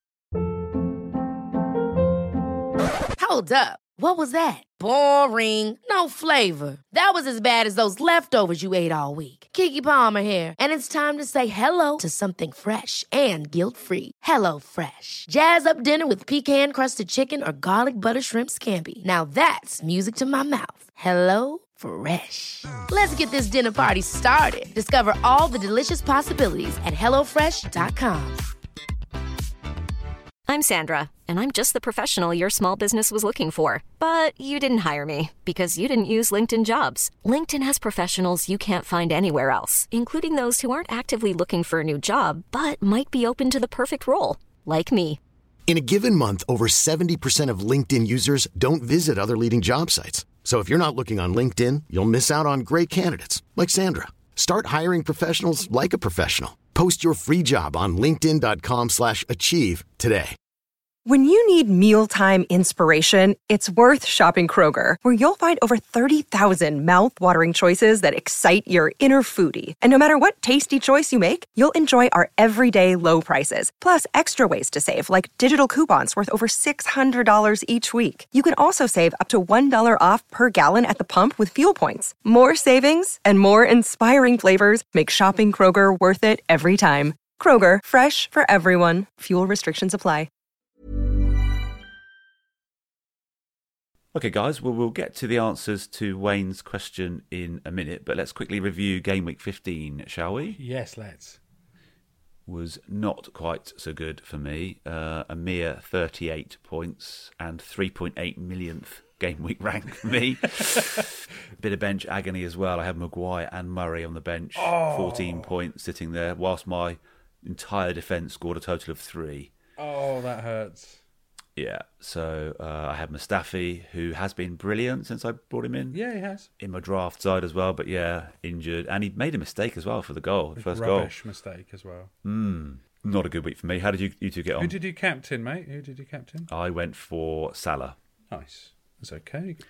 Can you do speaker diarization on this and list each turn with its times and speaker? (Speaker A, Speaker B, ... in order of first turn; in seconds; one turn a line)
Speaker A: 3.2-28.4
Speaker B: 30.5-45.2
Speaker C: 45.7-60.4
Speaker D: 61.1-90.3
Speaker E: 94.1-100.6
Speaker F: 100.6-101.4
Speaker E: 102.5-119.5
Speaker F: 114.6-115.5
Speaker F: 119.8-121.0
Speaker E: 121.6-126.0
Speaker F: 125.9-126.5
Speaker E: 126.6-131.1
Speaker F: 130.6-132.1
Speaker E: 132.2-134.8
Speaker F: 134.6-136.5
Speaker E: 136.5-138.0
Speaker F: 138.3-139.6